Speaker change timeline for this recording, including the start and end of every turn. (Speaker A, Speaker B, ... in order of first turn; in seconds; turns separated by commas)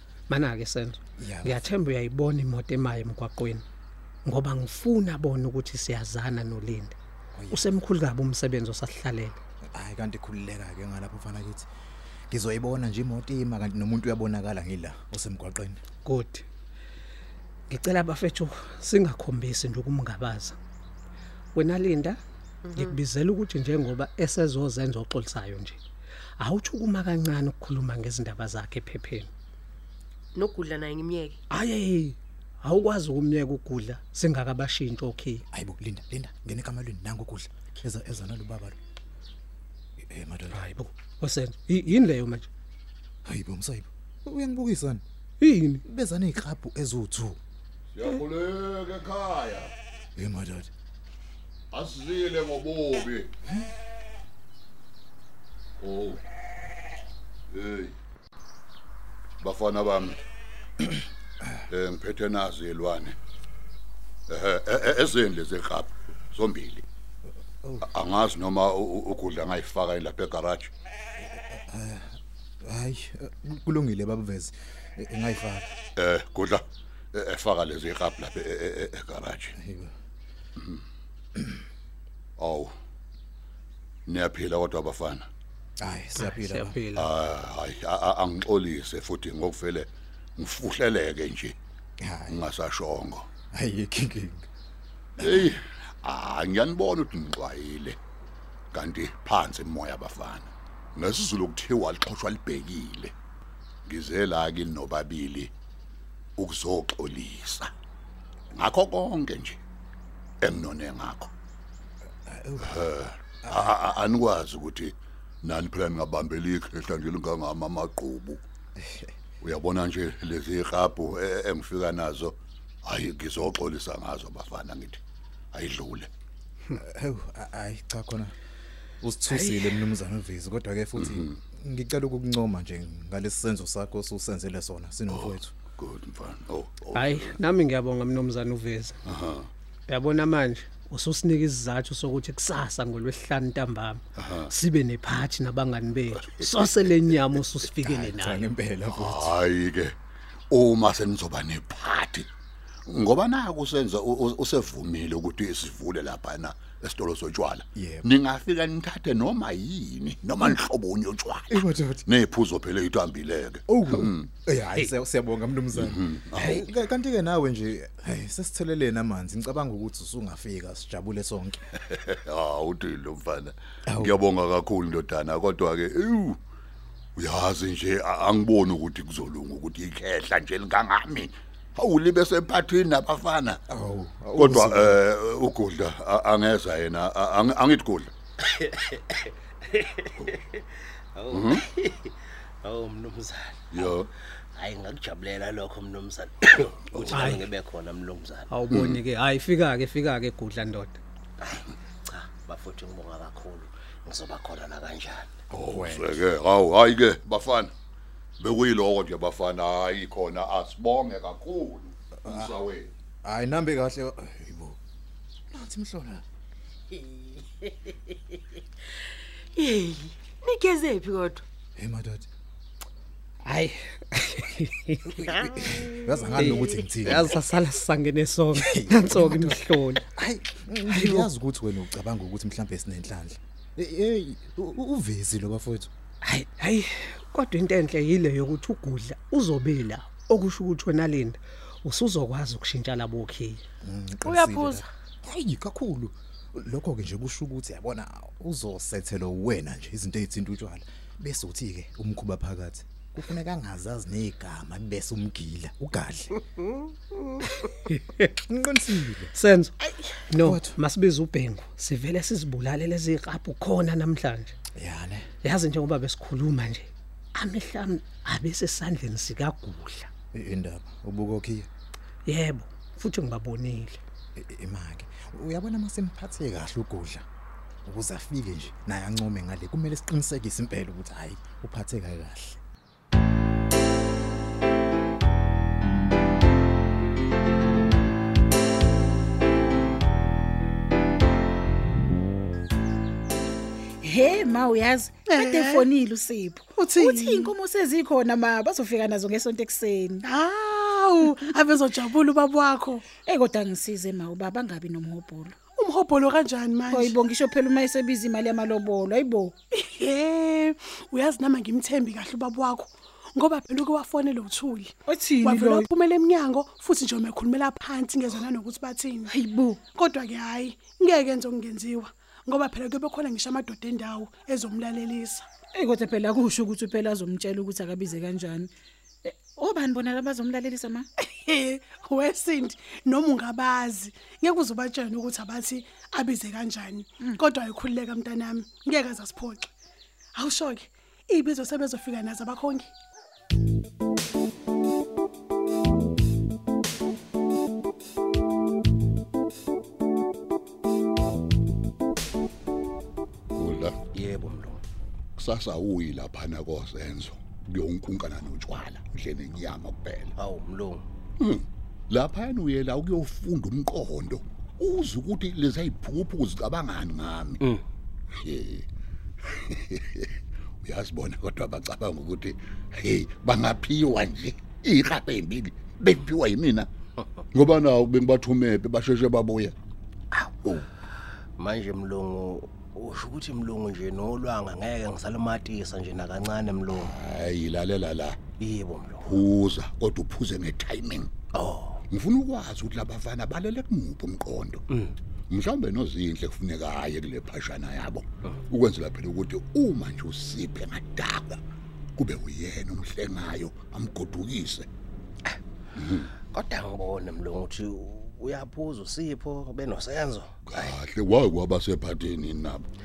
Speaker A: 0.3-3.6, Speaker B: 1.2-1.7, Speaker A: 4.2-6.9, Speaker B: 7.3-7.7, Speaker A: 7.5-9.4, Speaker B: 9.7-11.7, Speaker B: 12.3-15.8, Speaker A: 16.0-16.4, Speaker A: 17.7-20.6, Speaker A: 21.5-22.2, Speaker C: 22.6-22.9, Speaker A: 22.7-25.8, Speaker A: 26.4-29.3, Speaker C: 30.3-31.4, Speaker A: 31.5-35.4, Speaker B: 35.5-38.8, Speaker B: 40.0-40.7, Speaker A: 40.5-42.5, Speaker B: 43.2-45.0, Speaker A: 45.4-45.8, Speaker B: 45.8-47.4, Speaker D: 47.9-49.7, Speaker B: 50.1-50.7, Speaker D: 51.7-53.3, Speaker D: 55.8-56.2, Speaker D: 57.5-57.9, Speaker D: 59.4-60.2, Speaker D: 61.7-63.1, Speaker D: 64.3-66.8, Speaker B: 67.6-67.9, Speaker D: 67.8-70.7, Speaker B: 71.2-75.7, Speaker D: 76.0-79.5, Speaker B: 79.6-79.9, Speaker D: 82.4-82.7, Speaker D: 84.1-85.3, Speaker B: 85.8-86.8, Speaker A: 86.2-87.1, Speaker D: 86.9-91.5, Speaker B: 92.0-92.4, Speaker D: 92.3-93.3, Speaker B: 93.5-94.5, Speaker B: 95.2-95.5, Speaker D: 95.2-98.0, Speaker D: 98.7-103.1, Speaker D: 103.9-105.5, Speaker D: 106.4-107.7, Speaker D: 108.5-109.6, Speaker D: 110.4-111.3, Speaker B: 112.2-112.8, Speaker D: 112.6-118.4, Speaker B: 113.5-113.8, Speaker B: 118.8-119.1, Speaker D: 119.4-125.0, Speaker D: 125.5-126.1, Speaker B: 126.7-128.3, Speaker B: 129.0-135.5, Speaker A: 129.3-129.8, Speaker D: 135.1-137.4, Speaker A: 136.9-139.0, Speaker D: 139.1-139.5, Speaker A: 139.9-148.5, Speaker D: 144.2-144.5, Speaker D: 146.3-146.7, Speaker B: 147.8-149.3, Speaker D: 148.9-149.9, Speaker D: 150.5-152.3, Speaker D: 152.9-164.3, Speaker B: 157.8-158.1, Speaker B: 161.5-162.1, Speaker B: 163.7-171.6, Speaker D: 165.7-166.7, Speaker D: 171.9-176.4, Speaker B: 173.8-174.2, Speaker D: 177.2-183.6, Speaker B: 183.7-185.0, Speaker D: 184.3-188.1, Speaker E: 188.6-188.9, Speaker E: 191.2-193.9, Speaker D: 191.3-191.6, Speaker D: 193.7-194.1, Speaker E: 194.5-198.5, Speaker D: 196.9-197.5, Speaker A: 197.1-197.4, Speaker A: 198.5-201.0, Speaker D: 198.7-199.0, Speaker E: 201.4-205.3, Speaker D: 205.5-207.7, Speaker B: 205.5-206.2, Speaker D: 208.4-212.9, Speaker B: 212.2-212.5, Speaker B: 213.2-214.8, Speaker B: 215.5-216.2, Speaker C: 219.6-221.4, Speaker B: 221.8-222.3, Speaker A: 223.4-225.4, Speaker B: 225.3-227.4, Speaker A: 226.3-230.0, Speaker B: 228.5-235.9, Speaker A: 230.8-231.3, Speaker A: 236.2-243.6, Speaker B: 243.8-256.4, Speaker C: 244.2-244.8, Speaker A: 257.6-258.3, Speaker B: 258.4-259.3, Speaker A: 259.3-264.5, Speaker B: 260.3-260.7, Speaker B: 264.8-265.3, Speaker A: 265.4-270.1, Speaker B: 270.3-271.7, Speaker A: 272.2-274.0, Speaker B: 274.4-277.2, Speaker B: 277.8-282.6, Speaker F: 294.0-300.3, Speaker G: 295.3-295.9, Speaker G: 296.8-297.5, Speaker G: 300.2-303.0, Speaker F: 301.2-301.6, Speaker F: 303.1-305.6, Speaker G: 305.8-307.1, Speaker F: 306.9-309.5, Speaker G: 309.7-319.3, Speaker F: 315.1-315.9, Speaker F: 319.2-319.8, Speaker G: 319.9-325.4, Speaker F: 325.7-328.7, Speaker F: 329.2-331.1, Speaker G: 331.2-339.7, Speaker G: 340.3-342.9, Speaker D: 353.6-354.0, Speaker E: 354.1-354.8, Speaker D: 355.4-360.3, Speaker E: 360.4-361.0, Speaker D: 361.4-367.6, Speaker D: 368.4-368.9, Speaker D: 369.5-370.3, Speaker D: 370.8-376.9, Speaker D: 377.5-379.7, Speaker E: 381.6-387.1, Speaker D: 386.9-388.4, Speaker E: 388.6-389.4, Speaker D: 389.2-391.3, Speaker E: 391.5-392.0, Speaker D: 392.1-394.8, Speaker D: 395.5-401.6, Speaker D: 402.2-404.9, Speaker D: 406.0-406.3, Speaker E: 406.5-410.9, Speaker D: 410.6-412.8